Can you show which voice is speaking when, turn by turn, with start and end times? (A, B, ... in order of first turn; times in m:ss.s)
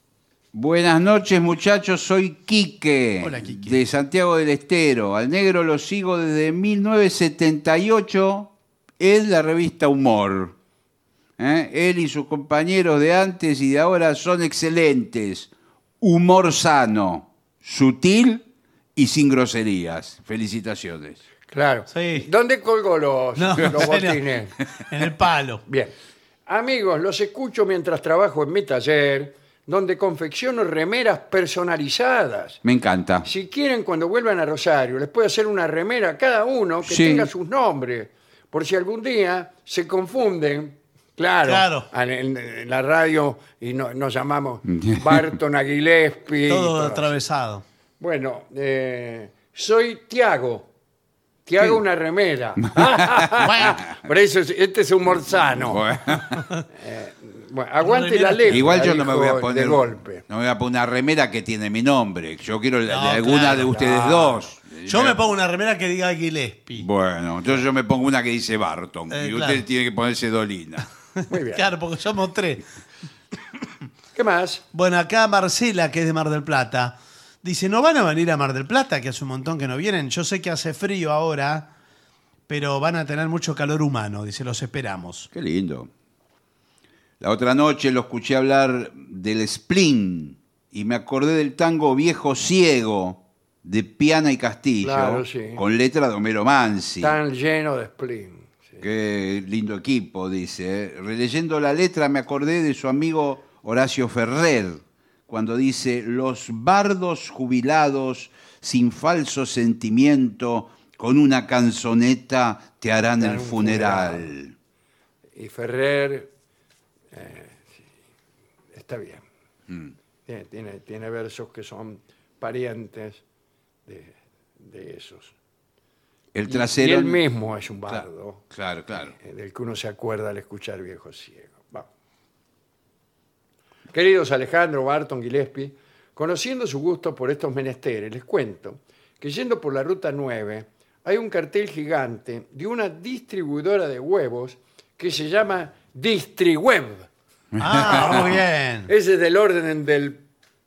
0:00.5-0:10.5 A
0:03.2-0:03.8 B
0:11.4-0:15.5 A
0:16.0-0:18.4 A
0:19.0-0:21.2 A
0:21.5-0:24.5 C
0:21.9-0:22.3 B
0:23.4-0:24.2 B
0:24.9-0:25.6 B
0:25.7-0:25.9 C
0:26.5-0:32.6 C
0:32.6-0:33.3 A
0:33.2-0:47.2 C
0:36.8-0:37.3 A
0:41.4-0:41.9 B
0:44.7-0:45.2 A
0:46.5-0:47.6 B
0:48.0-0:50.7 C
0:51.4-0:55.8 C
0:52.6-0:53.3 A
0:53.4-0:53.8 B
0:55.6-0:56.4 A
0:56.4-0:56.6 B
0:56.7-1:00.2 C
0:57.8-0:58.9 B
0:58.5-1:05.2 A
1:02.9-1:06.9 B
1:06.8-1:10.9 A
1:09.1-1:09.6 B
1:11.2-1:12.6 B
1:11.3-1:11.7 C
1:14.1-1:14.6 C
1:14.7-1:21.7 B
1:22.5-1:25.3 B
1:25.3-1:25.9 A
1:27.2-1:37.2 A
1:34.8-1:35.6 C
1:37.0-1:38.8 C
1:38.8-1:54.5 A
1:53.2-1:54.3 C
1:55.3-1:56.3 C
1:57.1-1:57.8 C
1:58.7-1:59.2 C
1:59.7-1:59.9 A
2:00.3-2:03.2 C
2:03.8-2:05.3 C
2:06.3-2:07.2 A
2:06.5-2:11.9 C
2:07.9-2:09.1 A
2:13.9-2:27.1 C
2:27.6-2:28.3 A
2:27.6-2:28.9 B
2:28.9-2:30.2 C